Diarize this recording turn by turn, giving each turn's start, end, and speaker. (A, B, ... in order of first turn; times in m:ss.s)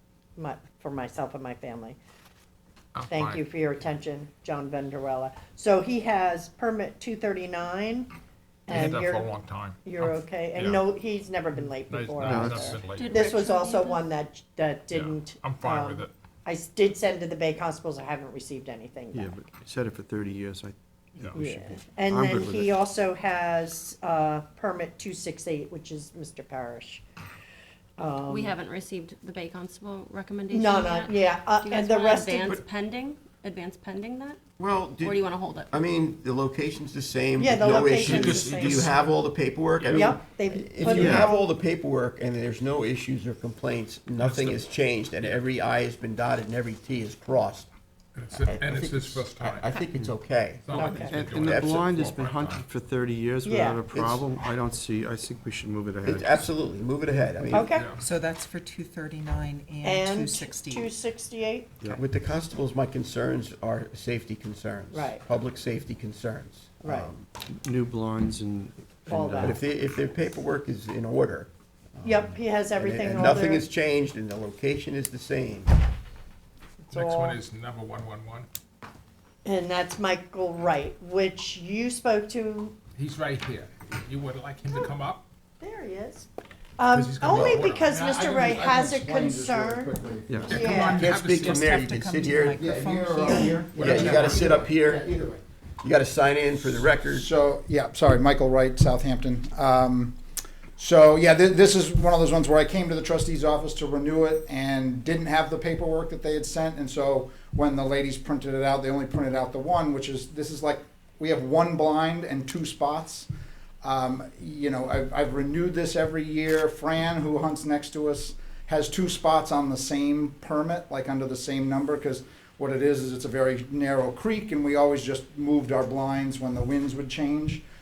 0:00.4-0:02.0 A
0:02.9-0:03.4 B
0:03.1-0:08.1 A
0:08.7-0:09.3 A
0:08.7-0:10.9 B
0:09.8-0:19.4 A
0:11.6-0:13.4 B
0:12.2-0:12.8 C
0:12.9-0:14.0 D
0:14.9-0:16.1 B
0:19.1-0:22.8 C
0:21.3-0:27.0 A
0:28.0-0:28.6 A
0:28.3-0:34.4 D
0:30.5-0:32.6 A
0:34.6-0:47.7 E
0:35.0-0:35.9 D
0:37.4-0:38.8 A
0:37.9-0:39.1 B
0:38.2-0:38.9 D
0:39.8-0:40.1 B
0:39.9-0:41.4 A
0:40.8-0:41.3 C
0:44.2-0:45.4 B
0:48.1-0:49.8 B
0:48.3-0:52.0 E
0:50.6-0:52.7 B
0:50.7-0:51.2 A
0:50.9-0:56.5 C
0:53.4-0:53.8 A
0:56.0-0:57.8 E
0:57.5-0:58.0 A
0:57.7-0:58.0 B
0:58.0-1:00.9 F
0:59.8-1:01.7 A
1:01.9-1:07.3 E
1:04.9-1:05.2 A
1:06.8-1:07.1 A
1:07.5-1:09.6 C
1:09.1-1:09.6 A
1:09.4-1:15.7 E
1:12.0-1:13.7 A
1:16.9-1:17.4 A
1:16.9-1:18.5 B
1:19.4-1:22.7 A
1:23.0-1:25.3 B
1:25.6-1:26.3 A
1:26.8-1:29.9 A
1:26.9-1:28.0 B
1:27.2-1:27.6 E
1:27.8-1:30.9 G
1:30.3-1:30.7 C
1:30.4-1:31.8 B
1:30.5-1:31.1 A
1:30.7-1:32.7 E
1:30.8-1:34.4 F
1:32.5-1:35.4 G
1:33.2-1:33.6 A
1:33.7-1:34.6 B
1:33.7-1:35.1 E
1:35.8-1:37.3 E
1:37.0-1:40.2 G
1:40.8-1:53.3 G
1:53.8-2:07.6 G